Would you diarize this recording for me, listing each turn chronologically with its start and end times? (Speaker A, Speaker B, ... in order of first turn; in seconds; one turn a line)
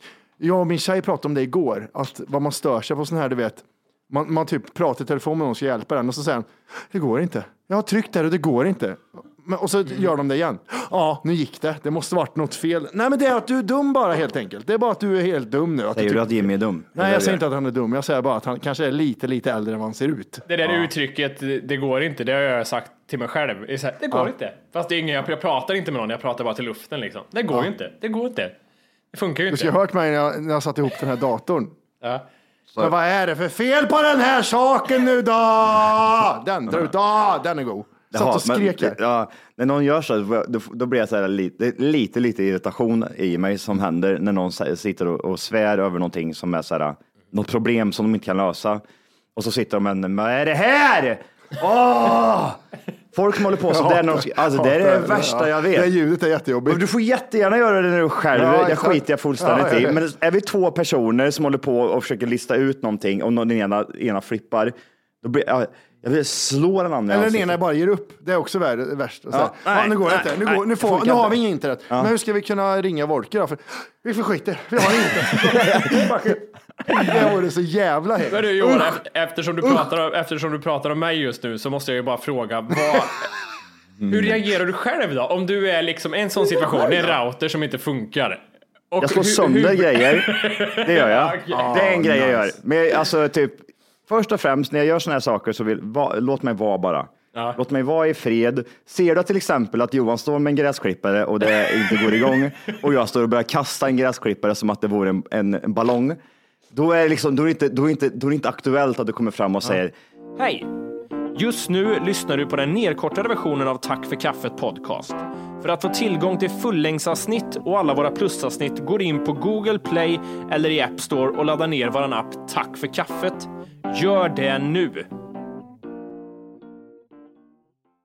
Speaker A: 0.4-20.9
Speaker B: 15.9-17.4
Speaker C: 20.5-28.6
Speaker C: 29.1-29.7
Speaker A: 29.5-31.8
Speaker A: 32.8-39.0
Speaker B: 38.1-48.8
Speaker B: 49.4-52.6
Speaker B: 53.1-55.9
Speaker A: 53.7-56.8
Speaker B: 56.7-67.6
Speaker A: 58.3-60.0
Speaker A: 67.1-76.4
Speaker B: 69.3-72.1
Speaker B: 75.5-76.2
Speaker C: 75.9-76.3
Speaker C: 76.9-77.3
Speaker A: 76.9-79.0
Speaker C: 78.3-83.3
Speaker B: 84.0-84.5
Speaker C: 84.1-91.9
Speaker A: 86.6-87.1
Speaker B: 89.0-106.2
Speaker A: 91.5-92.5
Speaker B: 106.7-109.9
Speaker C: 110.4-110.7
Speaker C: 111.3-125.1